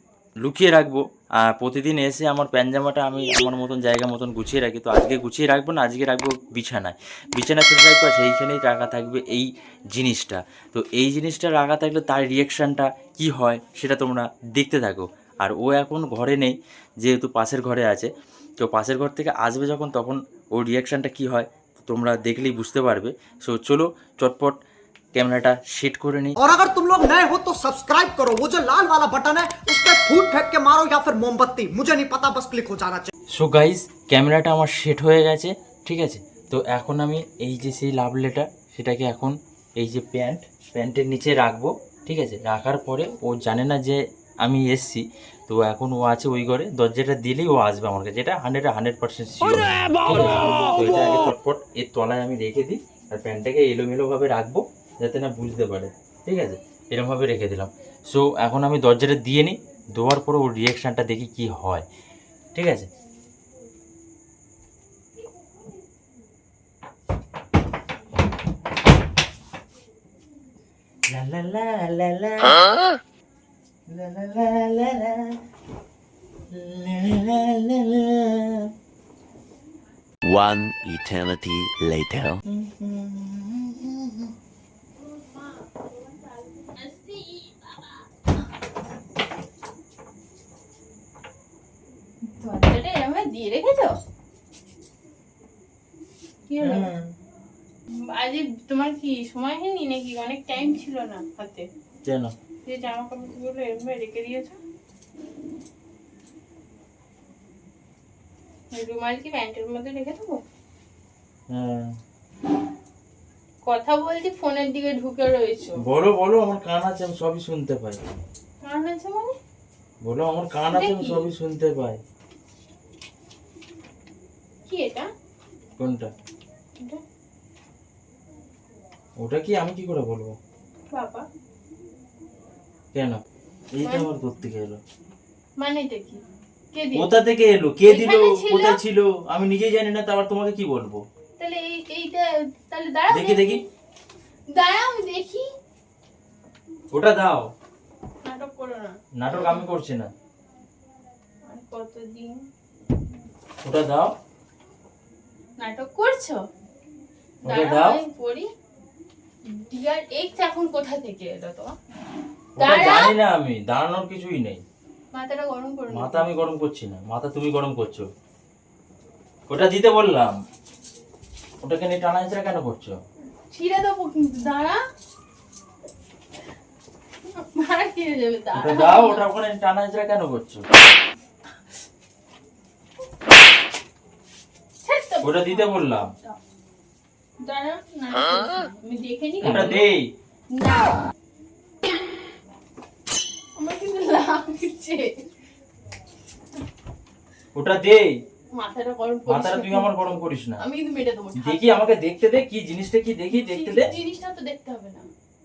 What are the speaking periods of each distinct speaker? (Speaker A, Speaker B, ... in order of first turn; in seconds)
Speaker A: 0.4-24.6, 25.1-26.4, 33.3-61.9, 62.5-62.9, 71.1-72.6, 73.9-75.4, 76.5-78.7, 82.5-84.3, 96.6-97.1, 102.0-102.3, 111.5-112.0, 115.8-118.0, 120.0-122.0, 125.8-126.1, 129.2-130.4, 132.9-133.2, 133.7-134.8, 136.9-141.0, 143.1-143.6, 146.9-147.5, 149.2-150.1, 153.6-154.1, 157.5-158.0, 162.6-164.6, 165.9-168.1, 169.5-170.3, 171.6-173.0, 178.6-180.7, 185.2-186.1, 189.4-190.1, 197.6-198.2, 199.3-200.6, 201.4-203.9
Speaker B: 26.4-33.1
Speaker C: 80.2-82.4
Speaker D: 86.6-87.8, 92.3-94.0, 96.5-96.9, 98.0-101.7, 102.7-104.6, 108.7-110.4, 113.7-115.8, 118.6-119.4, 120.7-121.2, 124.7-125.1, 130.9-131.3, 133.8-134.1, 135.6-137.1, 137.8-138.8, 141.4-143.6, 144.5-145.5, 148.2-149.6, 151.5-152.5, 155.6-156.4, 157.4-158.5, 159.5-161.8, 162.6-163.1, 165.1-166.3, 173.5-174.8, 177.3-179.3, 184.8-186.4, 187.4-189.9, 190.5-191.0, 193.6-195.2, 198.5-199.9, 200.6-201.9, 203.3-205.1